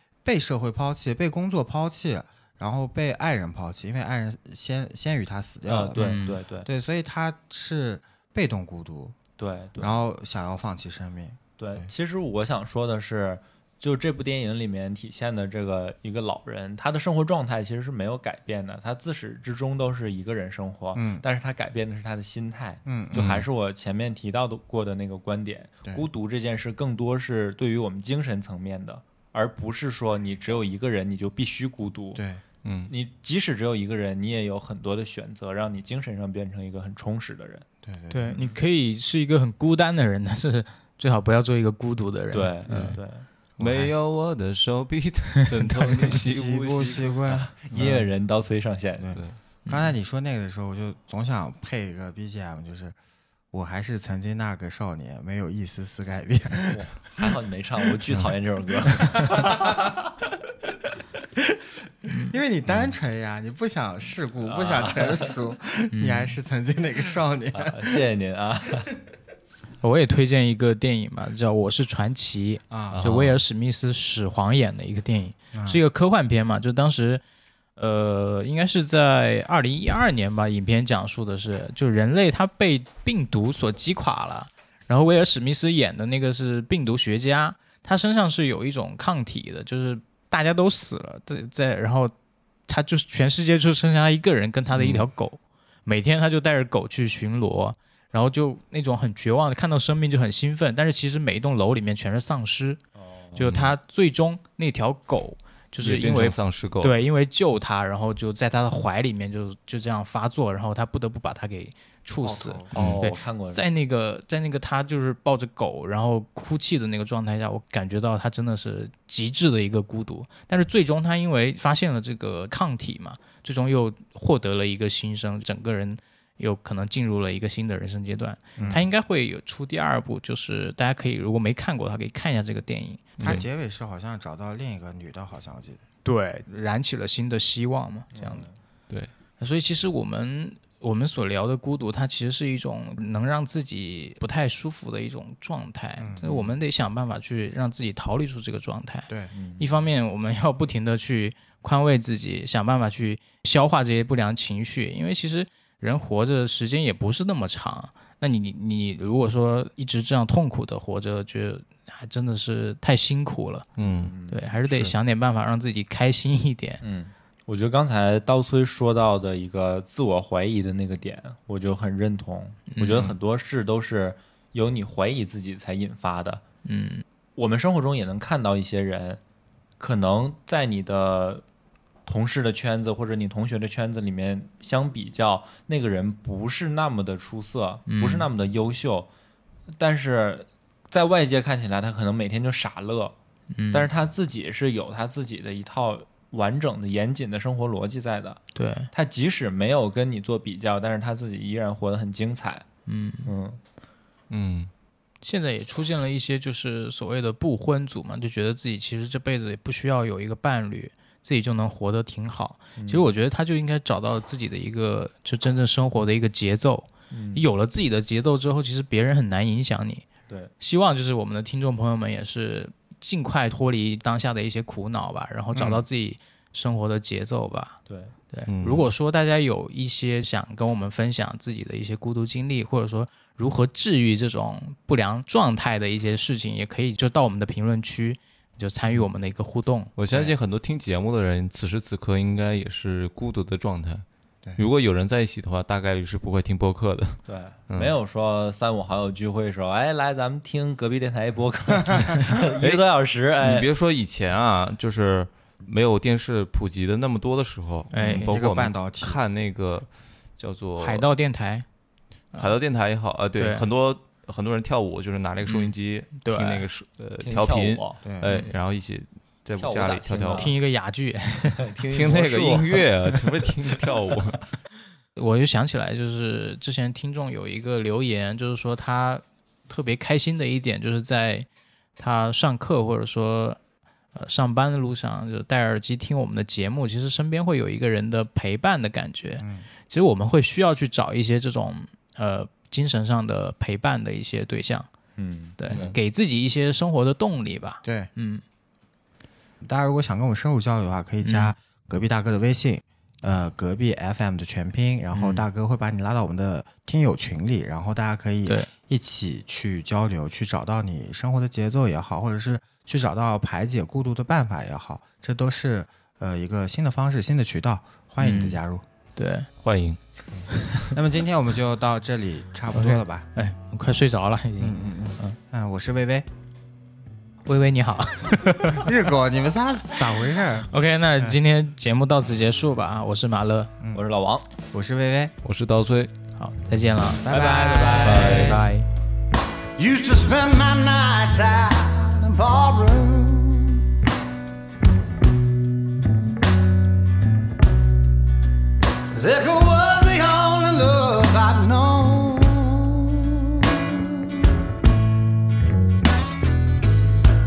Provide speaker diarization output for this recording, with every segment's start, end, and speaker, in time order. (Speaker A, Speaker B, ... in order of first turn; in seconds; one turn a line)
Speaker A: 0.2-9.2
Speaker B: 5.7-6.7
Speaker C: 6.0-6.3
Speaker B: 9.4-10.0
Speaker A: 9.8-11.9
Speaker B: 11.6-32.2
Speaker A: 20.9-21.2
Speaker A: 22.9-23.3
Speaker D: 23.1-23.5
Speaker A: 32.1-32.4
Speaker D: 32.6-32.9
Speaker B: 32.9-37.7
Speaker A: 37.8-38.5
Speaker C: 38.1-43.0
Speaker B: 42.3-43.3
Speaker A: 43.6-43.9
Speaker D: 43.6-47.1
Speaker A: 46.1-48.0
Speaker B: 47.3-49.2
Speaker D: 47.7-48.0
Speaker A: 49.0-53.0
Speaker C: 49.7-50.0
Speaker A: 53.5-57.3
Speaker B: 56.7-59.8
Speaker A: 58.9-59.9
Speaker C: 62.1-62.4
Speaker A: 62.3-68.0
Speaker B: 64.5-65.3
Speaker C: 65.9-66.4
Speaker B: 67.5-68.9
Speaker C: 69.8-77.2
Speaker A: 72.7-73.0
Speaker D: 72.9-73.4
Speaker A: 75.5-75.8
Speaker C: 77.8-92.1
Speaker C: 92.7-102.8
Speaker D: 94.7-95.0
Speaker B: 103.0-103.3
Speaker D: 103.3-103.8
Speaker C: 103.3-133.4
Speaker D: 105.8-106.9
Speaker A: 112.2-112.8
Speaker B: 112.7-113.6
Speaker D: 112.8-113.1
Speaker A: 128.6-128.9
Speaker D: 133.2-133.5
Speaker A: 133.2-135.8
Speaker C: 136.1-138.5
Speaker B: 138.1-138.5
Speaker C: 139.4-163.7
Speaker A: 146.0-146.2
Speaker B: 149.3-149.7
Speaker D: 163.8-164.1
Speaker B: 163.8-164.4
Speaker C: 164.3-166.8
Speaker B: 166.8-176.4
Speaker C: 172.7-173.1
Speaker C: 176.7-177.1
Speaker B: 177.4-179.2
Speaker B: 179.8-181.4
Speaker B: 182.1-189.1
Speaker C: 187.9-188.3
Speaker B: 189.7-193.2
Speaker C: 193.5-193.9
Speaker B: 193.7-202.7
Speaker C: 198.6-198.9
Speaker C: 202.9-203.3
Speaker B: 203.3-203.6
Speaker D: 204.3-204.7
Speaker C: 205.2-220.1
Speaker B: 212.8-213.1
Speaker B: 217.1-217.4
Speaker C: 220.6-227.8
Speaker A: 225.5-225.8
Speaker B: 227.9-228.2
Speaker C: 228.3-239.9
Speaker D: 228.5-228.9
Speaker D: 240.0-244.1
Speaker D: 244.6-247.9
Speaker B: 247.3-253.7
Speaker D: 253.4-261.1
Speaker C: 257.9-258.3
Speaker A: 258.0-259.2
Speaker C: 260.8-261.7
Speaker D: 262.4-270.5
Speaker C: 263.4-263.6
Speaker C: 265.4-266.7
Speaker B: 267.2-268.0
Speaker A: 268.1-268.3
Speaker C: 268.3-268.5
Speaker B: 269.6-270.6
Speaker C: 270.3-271.6
Speaker B: 271.6-272.8
Speaker D: 271.9-274.5
Speaker C: 275.2-283.6
Speaker C: 284.1-294.9
Speaker A: 289.4-289.7
Speaker B: 295.2-295.9
Speaker C: 295.6-298.4
Speaker A: 297.8-298.1
Speaker A: 299.6-318.9
Speaker C: 301.2-301.5
Speaker C: 305.1-305.4
Speaker C: 318.2-318.6
Speaker C: 319.2-319.5
Speaker D: 319.6-320.0
Speaker C: 320.6-320.9
Speaker A: 320.9-323.3
Speaker C: 322.7-325.4
Speaker A: 324.6-326.3
Speaker C: 327.5-328.9
Speaker A: 328.7-331.4
Speaker C: 330.7-333.7
Speaker B: 333.9-334.5
Speaker A: 334.7-335.3
Speaker D: 335.4-336.1
Speaker C: 336.4-337.3
Speaker A: 337.2-338.6
Speaker B: 337.3-338.5
Speaker C: 338.0-338.9
Speaker D: 338.0-338.6
Speaker E: 339.8-343.9
Speaker E: 349.1-354.6